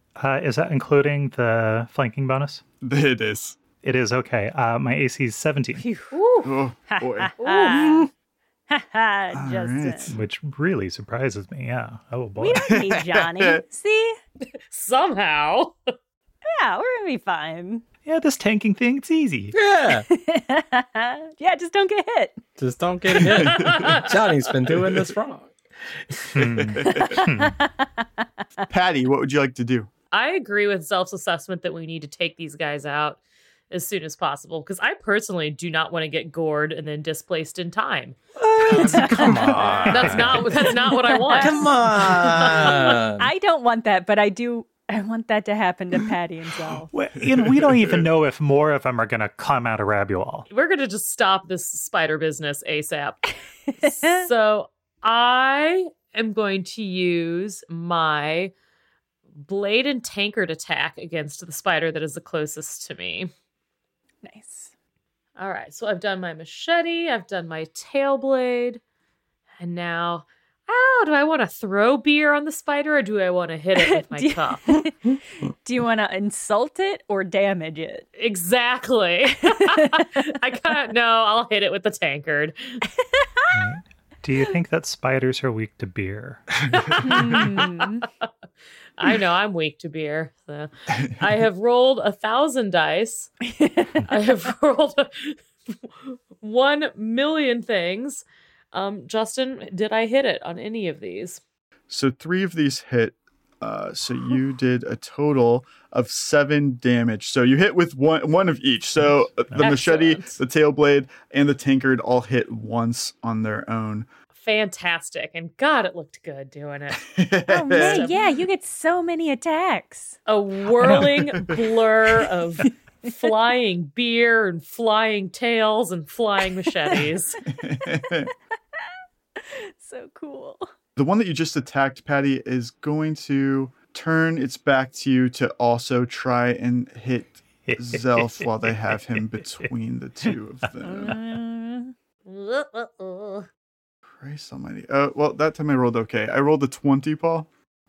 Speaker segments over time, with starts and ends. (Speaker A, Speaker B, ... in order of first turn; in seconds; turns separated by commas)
Speaker A: 0.2-2.6, Speaker B: 2.8-3.6, Speaker A: 3.8-5.8, Speaker C: 5.8-8.1, Speaker D: 6.1-6.5, Speaker B: 6.4-7.3, Speaker D: 7.4-8.1, Speaker C: 8.7-10.1, Speaker B: 9.3-10.2, Speaker A: 10.1-12.7, Speaker C: 12.4-14.2, Speaker B: 12.5-13.6, Speaker D: 14.7-15.8, Speaker C: 16.5-17.8, Speaker A: 18.1-19.6, Speaker E: 19.5-20.1, Speaker C: 20.1-22.4, Speaker E: 22.6-25.6, Speaker B: 23.2-23.9, Speaker D: 23.5-24.1, Speaker B: 24.7-25.1, Speaker A: 26.3-27.6, Speaker B: 26.4-27.2, Speaker C: 26.9-28.2, Speaker B: 28.7-29.9, Speaker D: 30.1-33.2, Speaker D: 33.7-38.2, Speaker E: 38.4-40.5, Speaker A: 38.7-40.4, Speaker C: 38.7-46.9, Speaker D: 39.9-43.0, Speaker E: 41.4-43.3, Speaker A: 46.9-50.5, Speaker B: 47.2-48.1, Speaker D: 50.5-53.3, Speaker D: 53.8-58.5, Speaker C: 53.8-54.2, Speaker D: 59.5-63.3, Speaker C: 64.2-64.7, Speaker D: 65.4-68.8, Speaker D: 69.6-74.6, Speaker C: 73.8-78.1, Speaker D: 78.2-82.5, Speaker C: 79.5-80.1, Speaker C: 83.0-83.5, Speaker A: 83.5-87.4, Speaker D: 86.9-88.0, Speaker C: 87.0-88.0, Speaker D: 89.0-93.3, Speaker C: 93.5-94.1, Speaker D: 94.1-95.4, Speaker D: 96.4-101.4, Speaker B: 101.9-114.1, Speaker A: 109.0-109.8, Speaker D: 109.6-110.4, Speaker D: 114.4-117.1, Speaker B: 117.0-118.1, Speaker C: 117.5-120.2, Speaker D: 117.7-118.2, Speaker D: 120.3-127.4, Speaker A: 120.8-121.4, Speaker B: 120.9-121.5, Speaker B: 127.5-128.3, Speaker C: 129.4-130.7, Speaker B: 131.0-141.2, Speaker A: 137.7-139.7, Speaker C: 140.8-141.9, Speaker D: 142.3-143.5, Speaker B: 144.1-147.5